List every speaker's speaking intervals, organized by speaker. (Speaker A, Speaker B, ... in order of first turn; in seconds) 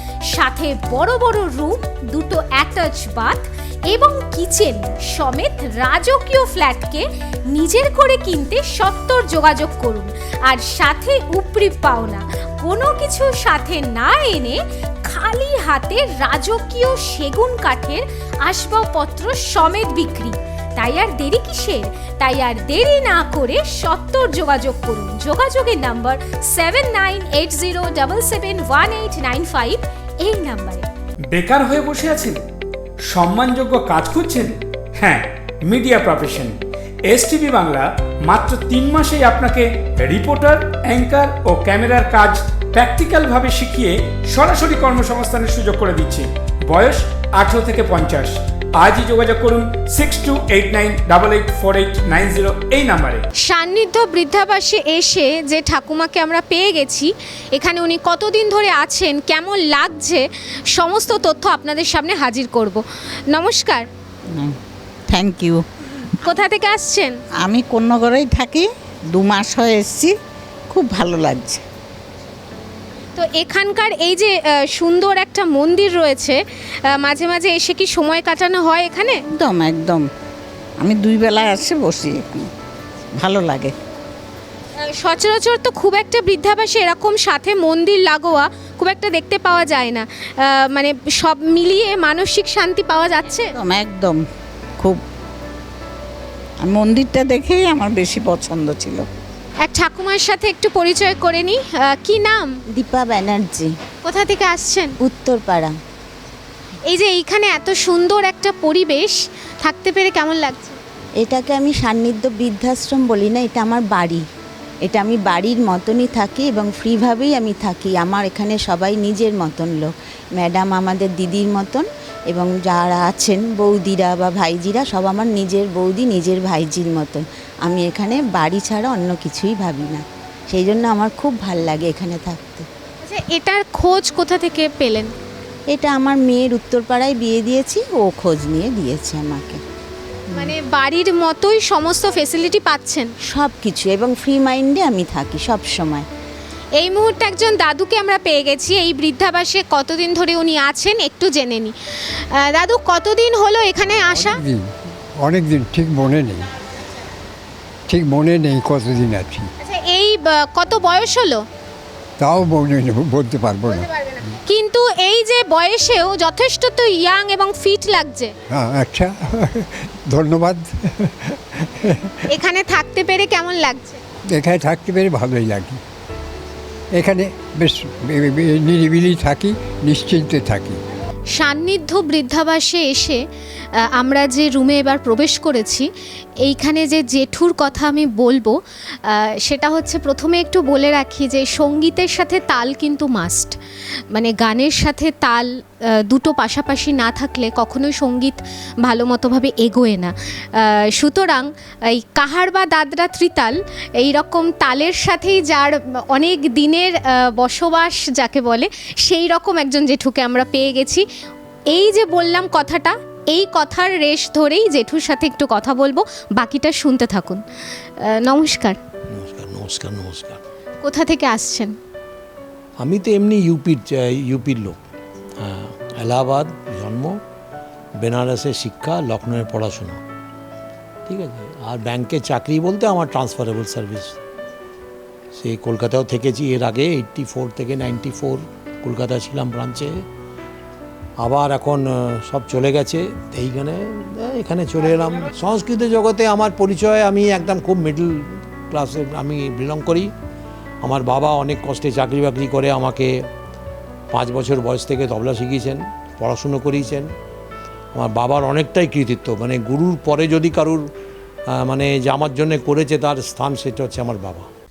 Speaker A: 0.3-30.9, 53.5-63.9, 66.2-67.2, 73.2-76.4, 76.9-79.2, 84.8-93.5, 99.6-102.6, 104.0-105.0, 106.9-110.8, 133.0-135.1, 140.3-143.1, 146.8-151.7, 152.3-154.4, 159.6-161.4, 163.7-168.3, 172.3-174.0, 181.3-183.2, 183.8-185.9, 186.4-193.6, 194.1-211.1, 211.7-217.4, 218.0-218.8, 220.8-221.7
Speaker B: 31.3-32.4, 33.1-36.6, 37.1-53.2
Speaker C: 65.1-65.6, 67.4-70.1, 70.7-71.6, 79.3-80.0, 80.8-82.5, 83.2-83.7, 93.6-94.2, 96.6-99.1
Speaker D: 102.7-103.8, 105.0-105.8, 111.2-114.2, 114.9-132.7, 135.7-139.6, 143.3-146.1
Speaker E: 155.2-156.4, 157.9-159.4, 162.2-163.8, 168.6-171.3, 174.4-175.8, 177.0-180.8
Speaker F: 219.1-220.4, 222.8-224.8, 225.4-227.2, 228.0-230.0, 231.1-234.2, 235.3-240.0, 241.2-250.1, 250.8-253.2, 254.1-257.1, 257.9-260.9, 261.5-264.5